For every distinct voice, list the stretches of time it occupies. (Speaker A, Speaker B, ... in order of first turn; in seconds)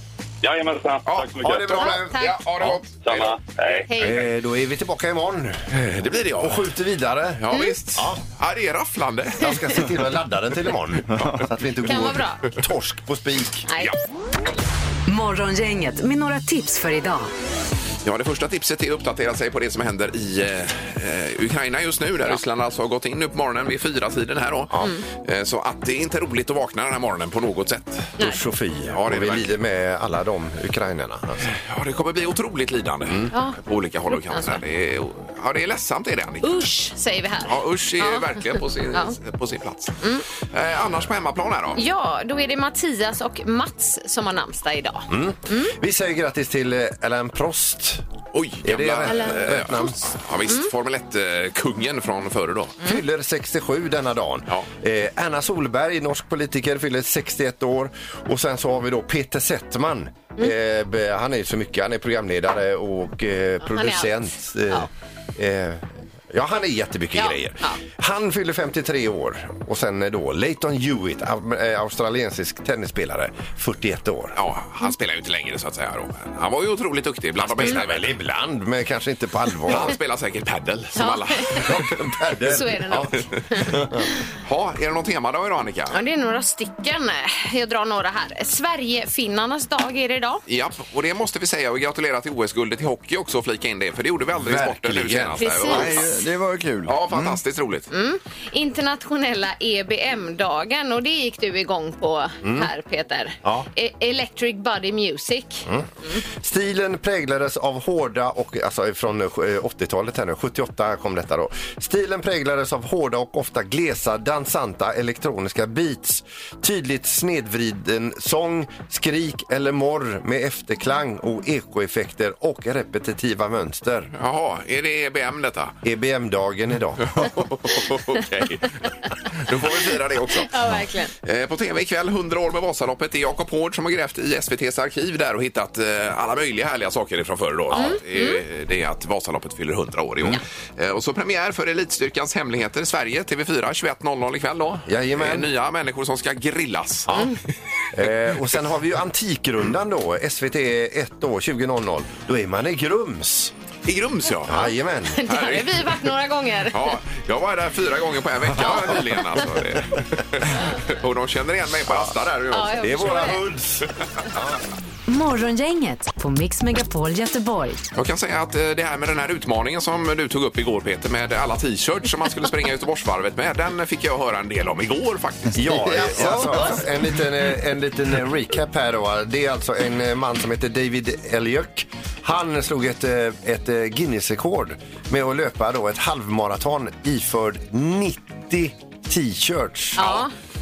Speaker A: 0.4-1.7, 3.0-3.9
Speaker B: 1.1-3.4, 5.7-6.7, 7.4-9.9, 18.0-28.2, 28.9-29.6, 31.5-36.6, 37.5-41.8, 48.3-52.8, 74.4-78.1, 79.7-82.0, 84.4-86.0, 90.5-96.0, 96.9-97.9, 124.2-125.8, 127.1-130.5, 131.2-147.2, 153.8-154.7, 155.3-155.9, 156.7-163.3, 167.9-176.7, 190.0-190.3
Speaker C: 1.4-2.8, 4.0-5.9, 6.4-8.2, 9.4-13.7, 28.2-31.5, 45.1-48.0, 48.6-50.1, 52.8-74.4, 77.4-79.9, 81.5-84.1, 94.4-95.5, 102.4-102.7, 105.7-124.1, 125.8-127.3, 144.8-145.5, 147.1-147.3, 147.9-153.5, 154.5-155.2, 162.8-164.6, 175.6-190.1
Speaker D: 1.7-2.4, 3.9-4.3, 11.8-12.5, 13.7-13.9, 34.1-34.6, 36.4-39.1, 41.8-45.8, 49.1-49.9, 63.6-64.9, 67.2-67.8, 81.0-81.7, 82.5-83.7, 85.9-90.4, 95.4-96.1, 97.9-106.2, 130.4-131.1, 137.7-138.4, 155.1-156.9, 158.6-159.0, 162.5-163.4, 190.0-190.3
Speaker E: 15.1-17.3, 165.1-167.8
Speaker F: 95.7-97.4, 175.6-176.8